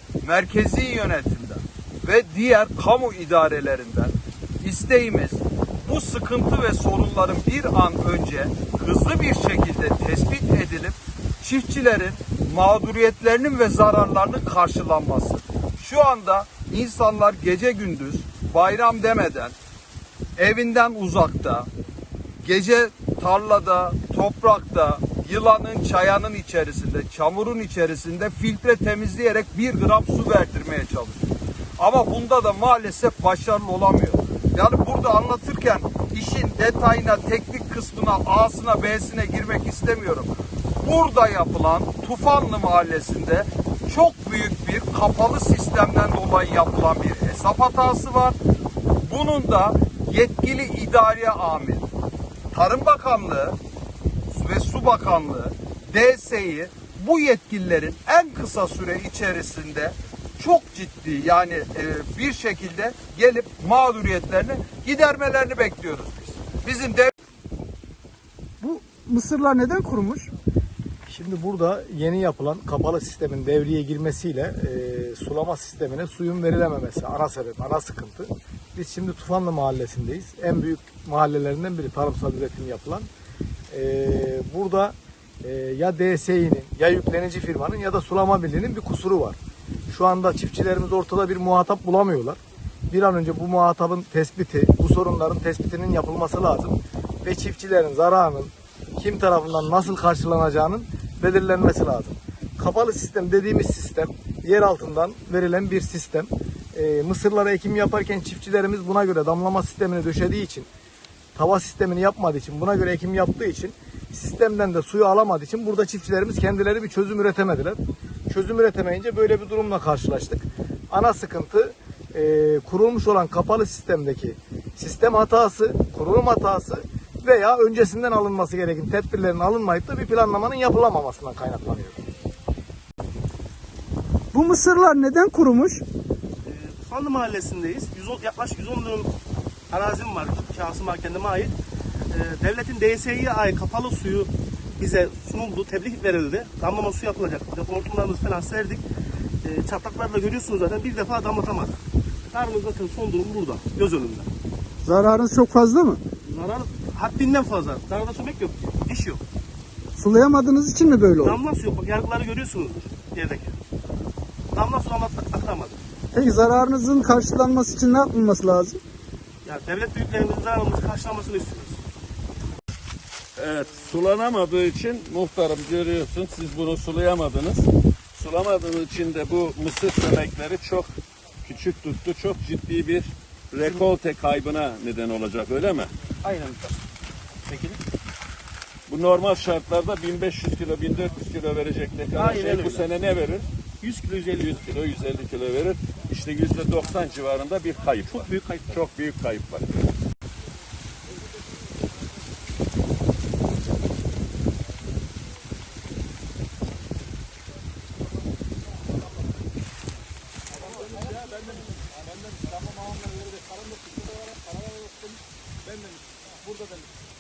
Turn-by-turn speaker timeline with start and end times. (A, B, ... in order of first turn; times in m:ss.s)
0:00.2-0:19.6 A
0:20.4-0:21.7 A
0:22.4-0:31.2 A
0:31.8-0:48.4 A
0:49.0-0:51.9 A
0:52.5-0:53.6 A
0:54.3-1:07.1 A
1:08.6-1:10.3 B
1:11.1-1:23.1 C
1:23.7-1:29.4 C
1:29.9-1:32.4 C
1:32.9-1:50.7 C
1:51.4-2:12.0 C
2:14.3-2:15.8 B
2:16.5-2:19.1 D
2:19.7-2:21.5 D
2:22.1-2:28.8 D
2:29.4-2:31.8 D
2:32.3-2:34.3 D
2:34.8-2:36.0 B
2:36.3-2:39.2 D
2:40.0-2:41.4 B
2:41.2-2:43.6 D
2:44.5-2:45.8 D
2:46.1-2:48.8 B
2:49.4-2:51.8 D
2:53.4-3:00.9 E
3:01.4-3:05.9 E
3:06.2-3:06.8 D
3:07.4-3:07.8 D
3:08.9-3:13.4 E
3:12.1-3:12.9 D
3:13.8-3:14.5 D
3:14.2-3:19.7 E
3:18.2-3:18.7 D
3:32.9-3:34.2 D